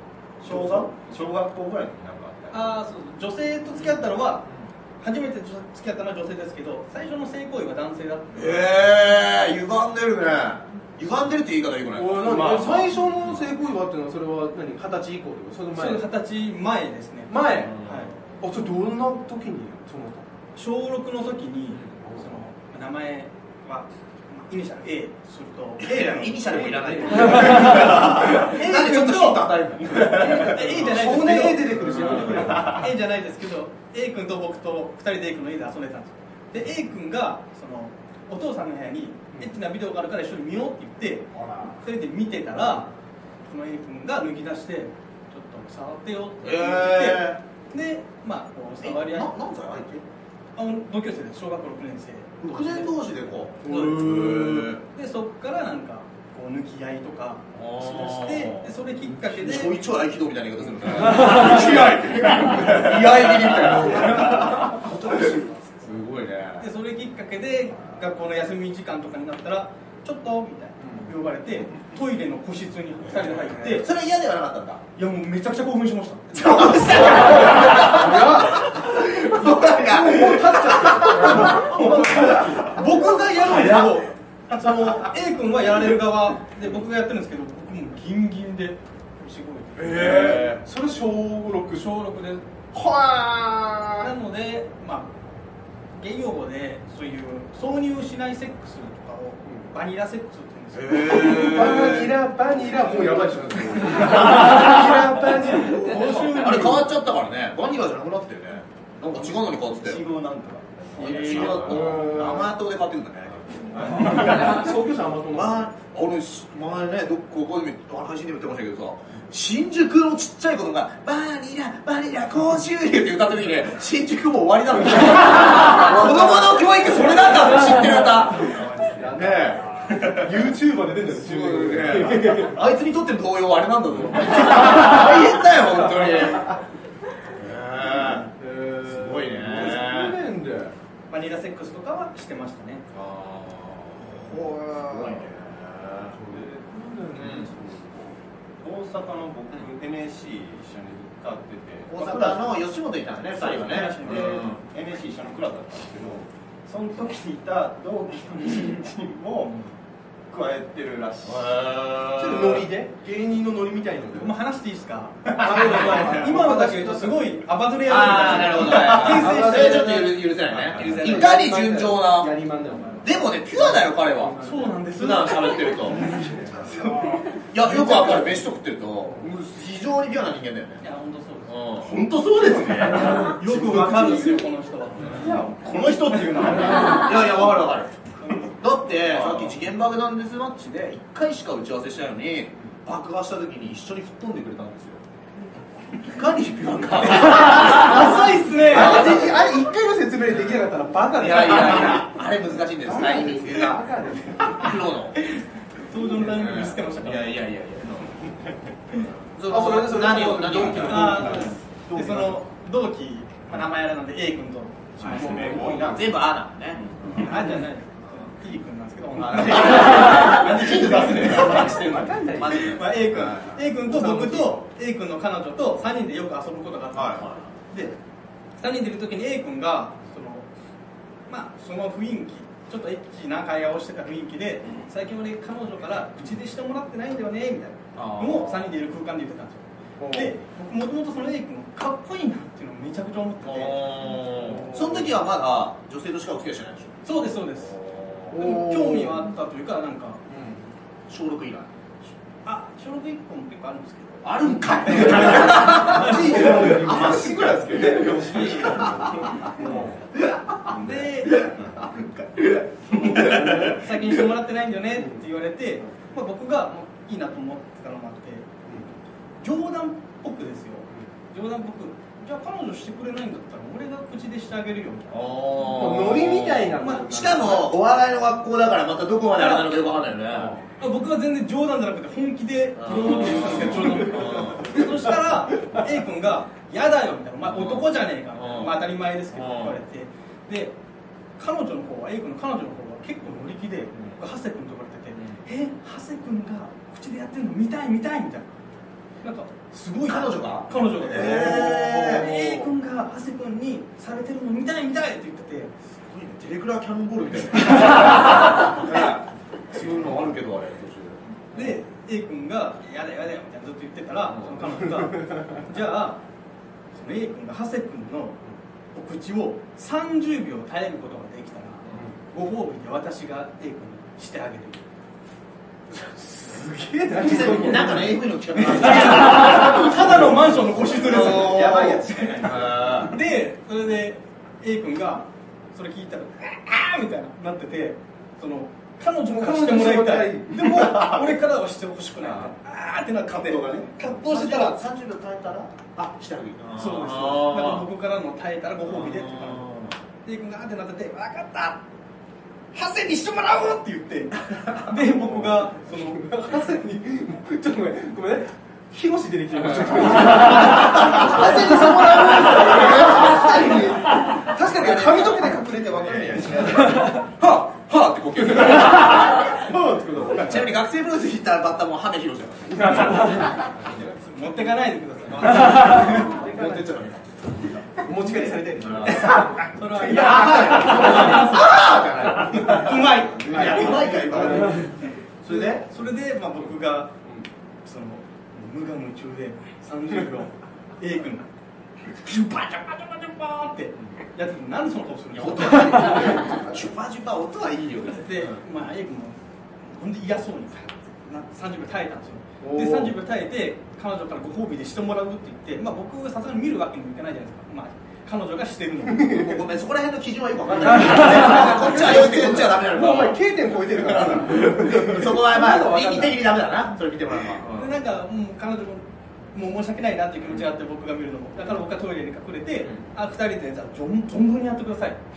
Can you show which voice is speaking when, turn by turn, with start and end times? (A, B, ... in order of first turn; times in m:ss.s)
0:00.4-0:02.8 A
0:00.5-0:00.8 B
0:02.5-0:04.5 C
0:03.8-0:04.6 B
0:05.0-0:08.7 C
0:08.3-0:13.4 B
0:11.9-0:16.1 D
0:12.3-0:12.9 A
0:15.8-0:18.1 C
0:17.3-0:17.8 D
0:17.6-0:18.1 B
0:18.4-0:20.2 D
0:20.6-0:26.6 C
0:22.0-0:22.4 D
0:25.8-0:30.5 B
0:26.5-0:28.0 D
0:27.3-0:42.9 C
0:29.8-0:30.5 A
0:30.1-0:32.8 D
0:32.0-0:32.3 B
0:32.5-0:32.8 A
0:41.3-0:41.8 B
0:43.5-0:49.3 C
0:46.4-0:47.4 B
0:48.8-0:50.0 B
0:50.6-0:52.9 C
0:52.4-0:54.8 B
0:53.6-0:54.8 D
0:54.9-0:59.8 C
0:57.5-1:06.7 B
1:01.1-1:01.9 D
1:03.6-1:05.6 D
1:06.6-1:13.9 C
1:10.8-1:11.1 D
1:13.5-1:14.8 B
1:15.0-1:16.8 C
1:16.3-1:21.7 B
1:17.0-1:18.8 D
1:19.4-1:22.6 D
1:21.2-1:30.4 C
1:21.5-1:22.9 A
1:23.5-1:23.9 B
1:29.8-1:32.1 D
1:30.0-1:30.6 B
1:31.8-1:32.4 C
1:32.7-1:34.1 D
1:34.0-1:35.1 C
1:36.0-1:41.6 C
1:40.7-1:42.2 B
1:41.0-1:46.1 D
1:45.6-1:46.9 C
1:45.7-1:50.0 B
1:49.1-1:52.0 A
1:51.0-1:54.7 B
1:51.0-1:52.5 D
1:51.1-1:51.4 C
1:53.7-1:54.2 A
1:53.8-1:55.6 D
1:55.3-2:10.2 B
2:08.5-2:09.1 A
2:09.0-2:12.6 D
2:11.2-2:16.6 B
2:17.3-2:18.3 B
2:18.4-2:20.7 D
2:18.8-2:20.2 B
2:21.1-2:22.8 C
2:22.9-2:26.2 B
2:24.7-2:25.3 A
2:26.2-2:28.1 D
2:27.1-2:27.5 B
2:28.6-2:32.6 A
2:31.9-2:34.6 B
2:33.4-2:34.4 C
2:33.5-2:39.6 A
2:40.3-2:41.5 A
2:41.2-2:42.7 B
2:42.2-2:44.4 D
2:44.2-2:50.1 C
2:45.3-2:45.8 A
2:45.4-2:47.4 D
2:47.9-2:52.3 B
2:48.7-2:54.7 D
2:50.7-2:51.2 A
2:53.0-2:56.0 B
2:54.4-2:56.1 C
2:55.9-2:56.5 D
2:56.4-2:56.9 A
2:56.7-2:57.2 C
2:57.5-3:00.8 B
3:00.8-3:01.6 C
3:01.5-3:01.9 B
3:01.9-3:04.4 A
3:02.4-3:04.4 D
3:03.1-3:05.3 C
3:05.0-3:07.2 A
3:06.8-3:07.9 B
3:08.5-3:15.0 B
3:09.0-3:09.6 A
3:16.0-3:19.4 B
3:17.2-3:19.2 C
3:18.6-3:22.1 D
3:20.3-3:20.6 B
3:21.2-3:23.8 B
3:22.8-3:24.7 D
3:24.5-3:25.2 B
3:25.2-3:27.4 C
3:26.2-3:28.2 B
3:29.3-3:31.6 B
3:29.5-3:31.6 D
3:30.8-3:35.6 C
3:31.9-3:32.4 A
3:35.0-3:36.0 D
3:35.0-3:36.8 B
3:35.0-3:36.2 A
3:36.8-3:37.3 A
3:37.1-3:48.0 C
3:39.2-3:41.6 B
3:39.3-3:42.1 A
3:41.3-3:42.8 D
3:42.2-3:43.6 B
3:43.8-3:44.6 D
3:46.9-3:47.5 B
3:48.6-3:50.5 C
3:51.3-4:04.0 C
3:58.0-3:58.8 B
4:00.0-4:00.4 D
4:03.4-4:08.4 B
4:04.4-4:05.1 D
4:07.0-4:07.8 C
4:08.3-4:09.3 D
4:08.3-4:10.2 C
4:10.3-4:10.6 D
4:11.1-4:11.7 B
4:12.4-4:16.5 C
4:14.2-4:17.2 B
4:14.9-4:19.9 D
4:15.7-4:19.9 A
4:18.0-4:19.7 C
4:18.6-4:19.8 B
4:20.5-4:23.7 A
4:20.7-4:21.6 C
4:22.9-4:28.5 C
4:23.1-4:23.8 D
4:25.0-4:25.2 D
4:29.4-4:35.2 C
4:35.1-4:40.6 B
4:35.7-4:37.7 D
4:36.8-4:37.0 C
4:39.4-4:39.7 C
4:40.3-4:40.6 D
4:40.8-4:50.8 C
4:42.8-4:44.9 B
4:47.4-4:48.8 B
4:49.3-4:49.8 B
4:51.4-4:58.5 C
4:54.0-4:54.2 B
4:59.2-5:05.7 C
5:00.1-5:02.3 B
5:01.1-5:02.7 D
5:06.1-5:11.8 B
5:11.5-5:16.2 C
5:14.3-5:14.6 B
5:15.0-5:15.4 D
5:16.9-5:18.4 C
5:18.9-5:24.8 C
5:26.4-5:28.2 D
5:27.2-5:33.2 B
5:28.5-5:44.8 C
5:29.2-5:30.6 D
5:30.9-5:32.9 A
5:39.3-5:40.7 D
5:40.6-5:41.4 A
5:43.3-5:43.9 A
5:44.0-5:47.9 B
5:46.8-5:49.7 C
5:48.8-5:50.0 B
5:50.2-5:51.8 C
5:52.7-5:56.3 C
5:55.2-6:07.2 D
6:01.0-6:01.7 B
6:02.5-6:03.7 B
6:04.6-6:09.7 B
6:06.3-6:07.1 A
6:08.5-6:10.7 D
6:10.2-6:13.4 B
6:12.7-6:13.6 D
6:14.0-6:16.5 C
6:15.3-6:17.2 B
6:15.7-6:17.0 D
6:18.0-6:21.4 D
6:18.2-6:21.9 C
6:18.8-6:24.9 B
6:22.4-6:27.1 C
6:23.5-6:24.9 D
6:23.5-6:24.6 A
6:25.5-6:25.8 B
6:27.8-6:31.4 C
6:32.1-6:36.6 C
6:35.3-6:38.6 B
6:38.1-6:49.4 C
6:42.6-6:43.2 D
6:49.2-6:53.4 B
6:50.8-6:56.4 D
6:51.4-6:51.9 C
6:54.1-6:57.9 B
6:57.7-7:05.2 C